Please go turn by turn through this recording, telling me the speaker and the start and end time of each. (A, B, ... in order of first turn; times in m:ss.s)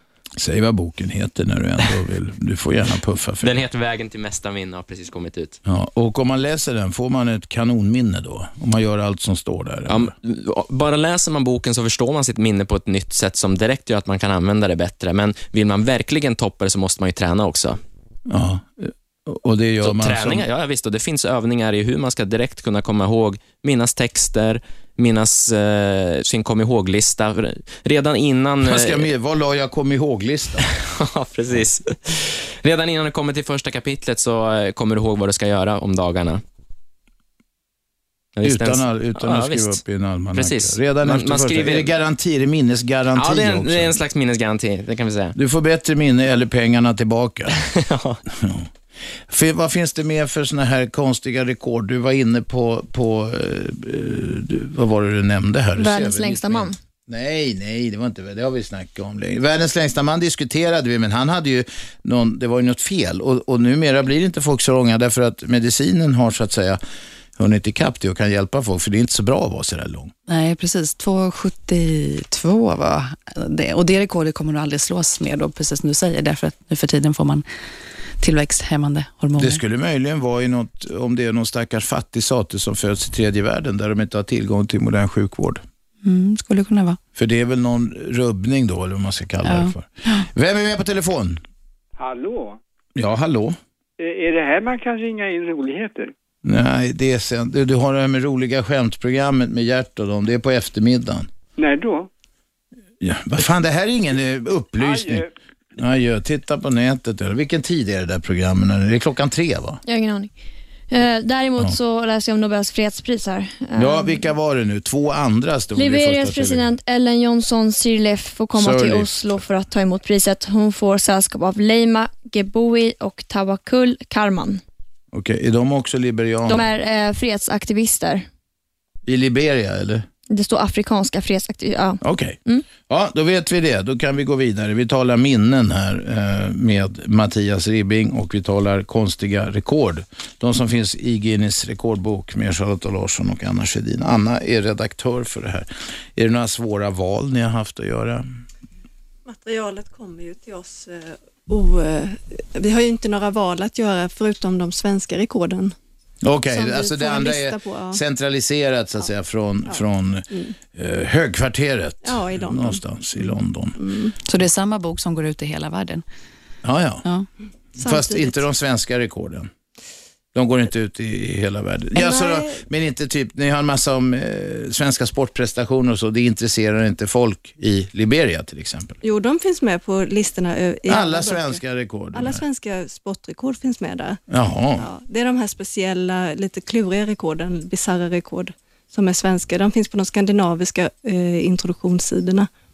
0:00.4-0:03.6 A
0:03.4-0:05.6 B
0:05.7-0:10.1 A
0:09.9-0:17.8 B
0:18.3-0:20.5 A
0:19.8-0:29.1 B
0:28.6-0:30.7 A
0:30.7-0:36.4 B
0:38.4-0:39.8 B
0:38.4-0:44.0 A
0:40.3-0:41.9 B
0:43.2-0:45.4 B
0:45.4-0:47.6 A
0:47.6-0:48.2 B
0:48.3-0:48.7 A
0:49.3-1:06.8 A
0:55.8-0:56.8 C
1:07.4-1:10.1 A
1:10.3-1:17.4 D
1:18.2-1:19.6 D
1:19.4-1:25.6 A
1:26.0-1:27.0 D
1:27.2-1:31.4 A
1:29.4-1:30.3 D
1:32.0-1:32.6 E
1:33.0-1:33.6 A
1:34.0-1:36.1 E
1:36.4-1:41.3 A
1:41.6-1:42.1 E
1:43.0-1:45.2 A
1:44.8-1:45.3 E
1:45.8-1:49.8 A
1:49.9-1:50.3 C
1:50.9-1:54.3 C
1:53.8-1:56.7 A
1:55.8-2:04.6 C
1:58.5-1:59.4 A
2:05.1-2:06.7 A
2:06.5-2:08.2 C
2:09.1-2:10.1 A
2:10.3-2:12.7 C
2:12.0-2:28.2 A
2:29.3-2:35.8 F
2:36.2-2:43.8 A
2:36.5-2:38.0 F
2:39.7-2:40.5 F
2:42.0-2:42.8 F
2:43.8-2:44.1 F
2:44.2-2:46.0 D
2:46.6-2:47.0 A
2:47.8-2:48.3 F
2:47.8-2:49.5 A
2:50.3-2:59.0 A
2:52.0-2:52.3 C
2:59.0-3:01.6 F
3:00.9-3:02.4 A
3:02.1-3:04.2 F
3:04.3-3:04.9 A
3:04.8-3:12.5 F